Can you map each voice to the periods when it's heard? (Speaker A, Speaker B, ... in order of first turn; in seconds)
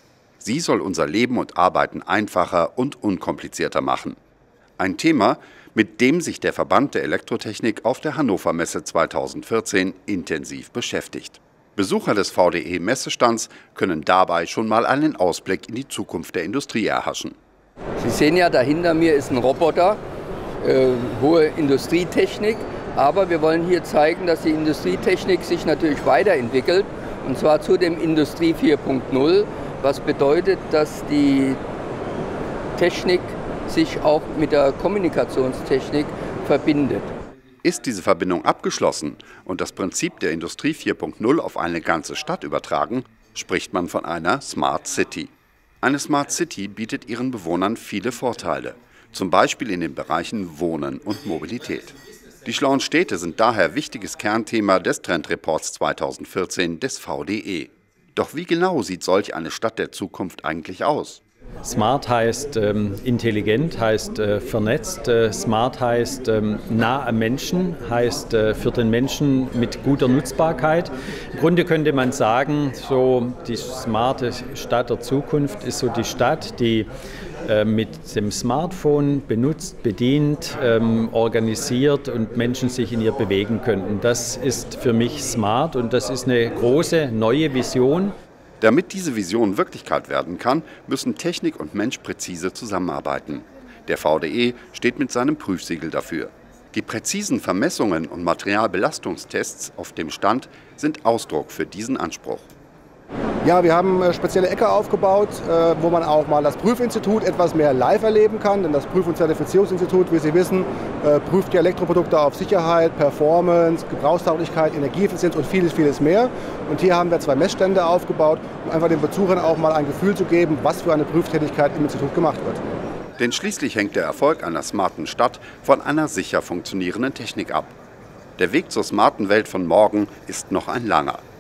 Speaker A: 0.4-4.2, 4.8-17.4, 37.6-61.2, 88.6-102.5, 123.2-127.8, 128.4-131.2
Speaker B: 18.0-20.0, 20.6-31.6, 32.8-37.1
Speaker C: 61.6-76.9, 77.5-88.2
Speaker D: 103.4-122.6